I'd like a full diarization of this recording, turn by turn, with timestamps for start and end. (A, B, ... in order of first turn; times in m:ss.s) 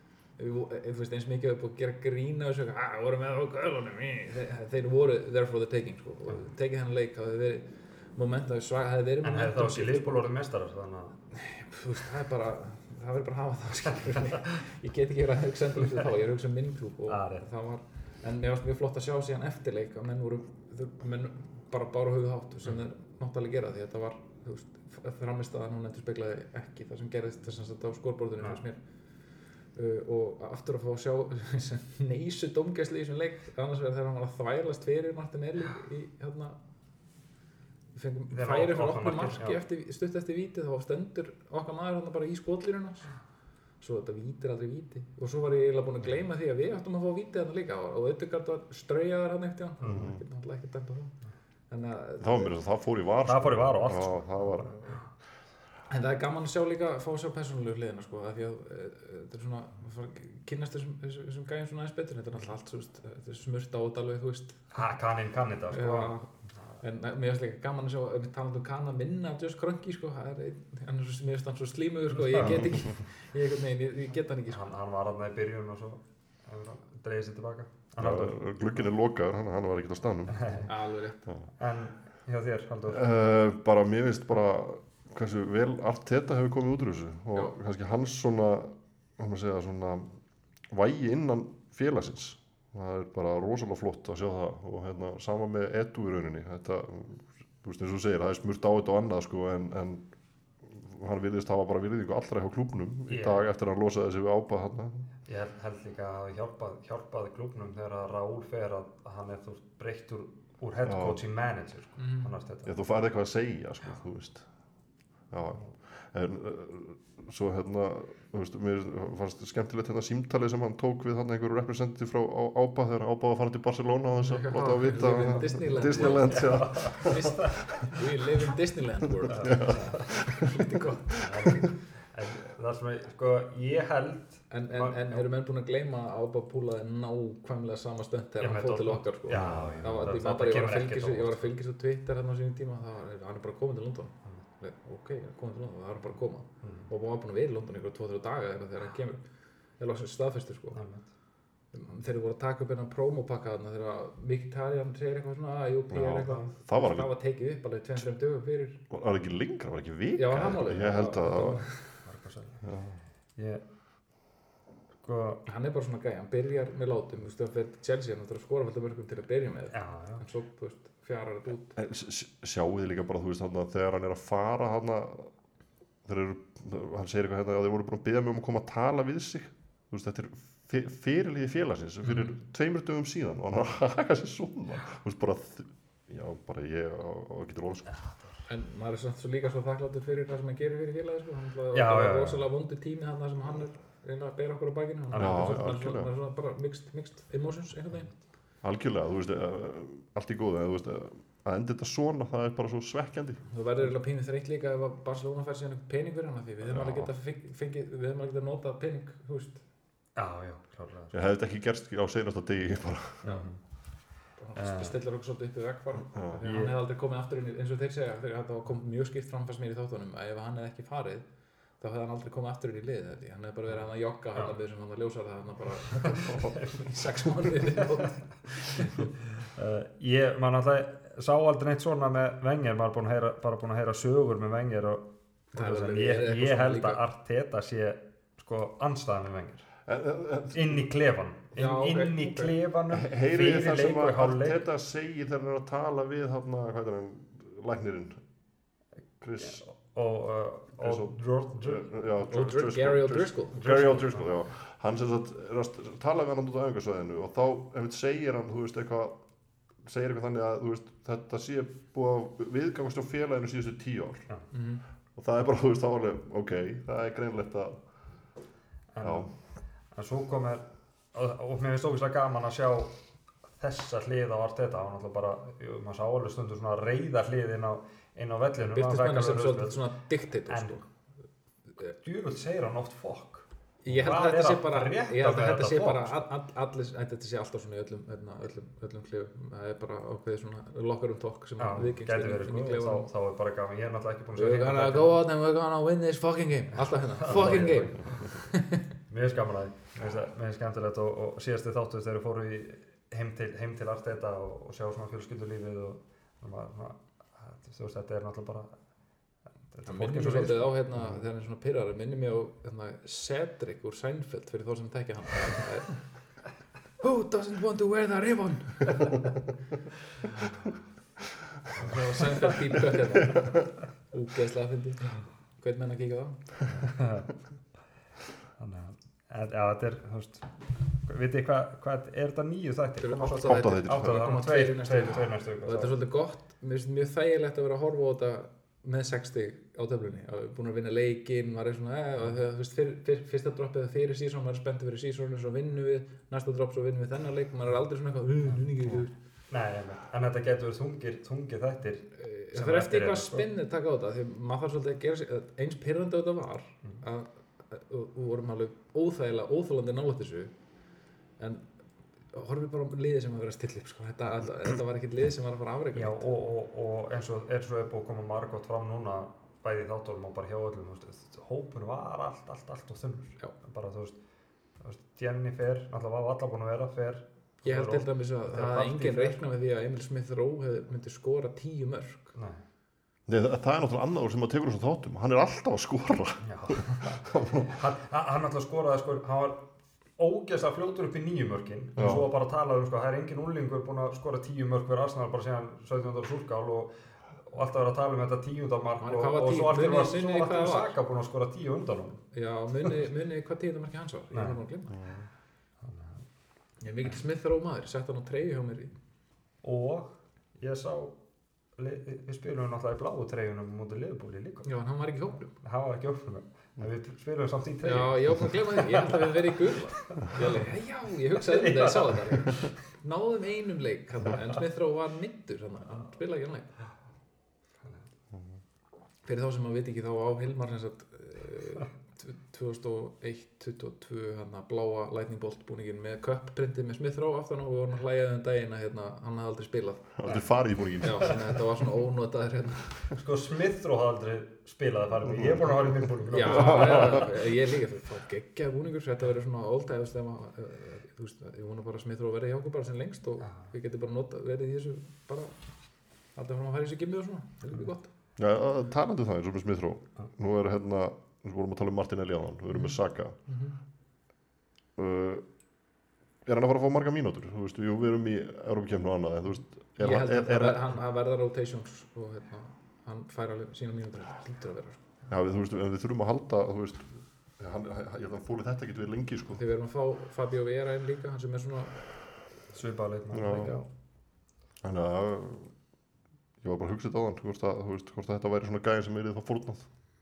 0:00.4-0:10.3 A
0:09.2-0:11.2 B
0:11.3-0:28.8 A
0:17.1-0:17.5 B
0:29.8-0:36.6 A
0:38.0-0:43.1 A
0:38.3-0:39.6 B
0:43.8-0:51.1 A
0:49.8-0:50.1 B
0:49.9-0:50.2 C
0:51.7-0:52.5 A
0:52.2-0:55.0 C
0:53.2-0:54.4 B
0:55.9-1:04.8 A
1:04.7-1:06.8 B
1:05.7-1:14.6 A
1:12.3-1:12.6 B
1:14.5-1:18.4 B
1:18.0-1:20.6 C
1:20.3-1:20.7 B
1:20.7-1:21.2 A
1:21.6-1:23.1 B
1:22.9-1:30.2 C
1:30.7-1:40.0 C
1:40.6-1:45.1 C
1:43.1-1:43.4 B
1:45.3-1:52.8 B
1:50.8-1:51.2 C
1:52.0-1:52.3 A
1:52.7-1:54.5 C
1:55.3-2:07.8 C
2:04.2-2:11.6 A
2:06.0-2:07.6 B
2:09.3-2:10.1 B
2:09.4-2:10.5 C
2:11.2-2:15.3 B
2:14.5-2:29.2 A
2:18.4-2:21.5 B
2:19.3-2:20.0 C
2:26.6-2:26.9 B
2:29.8-2:30.8 A
2:30.7-2:31.1 B
2:31.7-2:38.8 A
2:35.9-2:37.1 C
2:38.9-2:41.6 C
2:40.2-2:41.8 A
2:42.0-2:42.6 B
2:42.6-2:43.0 C
2:43.4-2:43.6 B
2:45.0-2:45.4 B
2:45.5-2:51.8 A
2:49.7-2:50.2 B
2:51.8-2:55.3 C
2:56.0-3:07.9 C
3:02.0-3:02.4 A
3:07.9-3:08.4 B
3:08.5-3:18.1 A
3:11.7-3:12.4 B
3:15.1-3:15.5 B
3:15.2-3:16.1 C
3:18.6-3:23.4 C
3:23.5-3:29.6 A
3:26.6-3:27.1 C
3:30.2-3:31.2 B
3:31.1-3:33.2 C
3:33.2-3:33.6 B
3:34.4-3:41.2 A
3:34.6-3:35.0 B
3:36.2-3:36.4 C
3:36.4-3:36.8 B
3:41.8-3:49.1 A
3:46.0-3:46.8 B
3:49.4-3:59.7 B
3:55.6-3:57.0 A
3:59.9-4:00.8 C
4:00.5-4:04.6 B
4:01.6-4:02.6 A
4:02.9-4:08.2 C
4:09.2-4:09.6 C
4:09.4-4:11.9 B
4:10.8-4:11.1 C
4:11.6-4:19.2 C
4:12.2-4:14.2 A
4:19.8-4:24.3 C
4:24.5-4:24.8 A
4:25.2-4:27.8 C
4:28.9-4:29.3 B
4:29.0-4:29.3 C
4:29.9-4:33.0 B
4:33.6-4:39.9 B
4:38.7-4:40.8 A
4:40.5-4:40.8 B
4:42.0-4:46.2 B
4:43.8-4:53.1 A
4:51.6-4:55.2 B
4:54.4-4:58.9 A
4:57.0-4:58.3 B
4:59.1-5:08.7 B
5:09.7-5:10.8 B
5:09.9-5:16.0 A
5:17.0-5:19.3 A
5:21.8-5:23.5 A
5:24.1-5:26.4 A
5:26.8-5:27.3 B
5:28.6-5:36.0 B
5:33.0-5:49.1 A
5:33.4-5:34.3 C
5:49.5-5:53.4 B
5:52.2-6:00.5 A
6:01.4-6:01.6 A
6:02.3-6:06.3 A
6:05.9-6:14.2 B
6:14.8-6:19.4 B
6:17.6-6:22.4 A
6:22.4-6:22.6 B
6:23.3-6:27.8 C
6:26.4-6:29.7 B
6:30.2-6:42.2 B
6:32.0-6:32.3 C
6:39.0-6:41.0 A
6:42.3-6:45.0 A
6:44.3-6:44.6 B
6:44.9-6:45.3 C
6:45.8-6:46.2 B
6:46.8-6:48.9 A
6:49.6-6:51.2 B
6:51.8-6:54.7 B
6:54.6-6:55.5 A
6:55.6-6:59.5 B
6:57.8-7:06.8 A
7:00.2-7:00.6 B
7:01.4-7:02.6 B
7:09.2-7:20.2 A
7:20.2-7:21.5 C
7:21.0-7:23.1 A
7:23.1-7:27.2 B
7:26.3-7:35.6 A
7:26.4-7:27.3 C
7:33.4-7:33.7 B
7:36.4-7:38.1 A
7:38.4-7:43.4 C
7:42.7-7:43.8 A
7:45.0-7:45.4 C
7:46.4-7:50.9 C
7:50.0-7:55.0 A
7:55.3-7:59.6 C
7:59.5-8:02.0 A
8:02.7-8:03.7 B
8:03.3-8:03.8 C
8:03.4-8:03.9 A
8:04.8-8:05.7 C
8:06.6-8:09.8 C